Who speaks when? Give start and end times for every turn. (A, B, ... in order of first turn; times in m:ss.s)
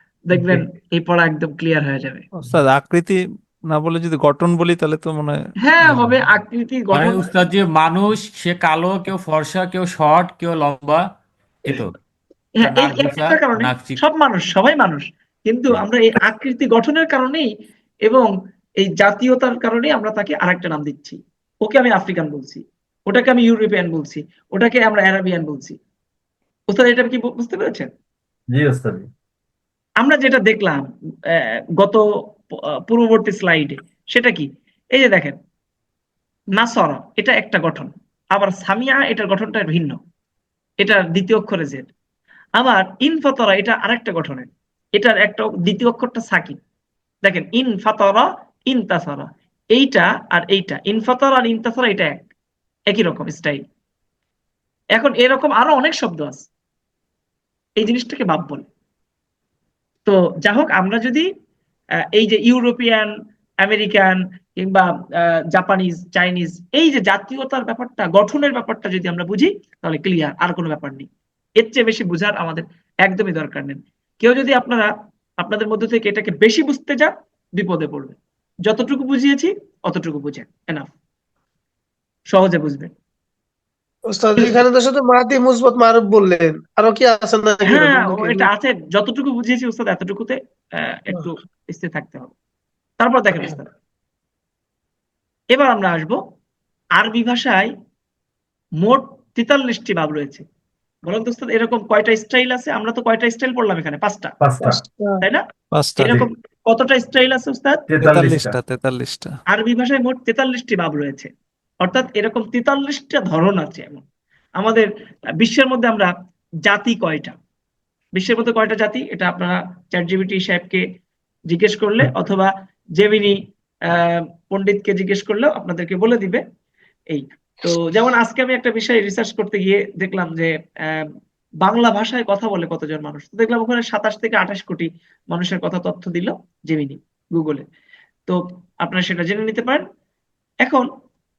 0:00.3-0:02.3 A
0:02.5-0:05.4 B
0:05.6-0:07.3 A
0:06.9-0:11.0 C
0:11.6-0:12.0 C
0:12.6-0:17.5 A
0:12.6-0:14.0 C
0:18.0-0:25.8 A
0:26.7-0:27.9 A
0:28.5-0:29.1 D
0:30.0-0:32.0 A
0:32.9-0:35.4 A
0:36.6-0:40.0 A
0:40.8-0:41.9 A
0:42.6-0:46.6 A
0:47.2-0:52.2 A
0:52.9-0:53.6 A
0:55.0-0:56.4 A
0:57.8-0:58.7 A
1:00.1-1:01.3 A
1:02.1-1:11.1 A
1:11.6-1:20.9 A
1:22.3-1:22.9 A
1:24.1-1:28.5 E
1:27.6-1:32.3 A
1:33.0-1:33.7 A
1:35.5-1:36.2 A
1:37.0-1:37.7 A
1:38.8-1:40.4 A
1:41.1-1:44.4 A
1:44.4-1:44.8 D
1:44.6-1:45.2 E
1:45.7-1:46.1 B
1:46.0-1:47.8 A
1:46.0-1:46.3 D
1:47.9-1:48.6 D
1:48.0-1:49.4 B
1:49.5-1:51.3 A
1:51.8-1:54.0 A
1:54.6-1:56.1 A
1:56.6-1:57.4 A
1:58.1-2:00.8 A
2:01.5-2:06.4 A
2:07.1-2:11.1 A
2:11.6-2:17.6 A
2:18.3-2:19.8 A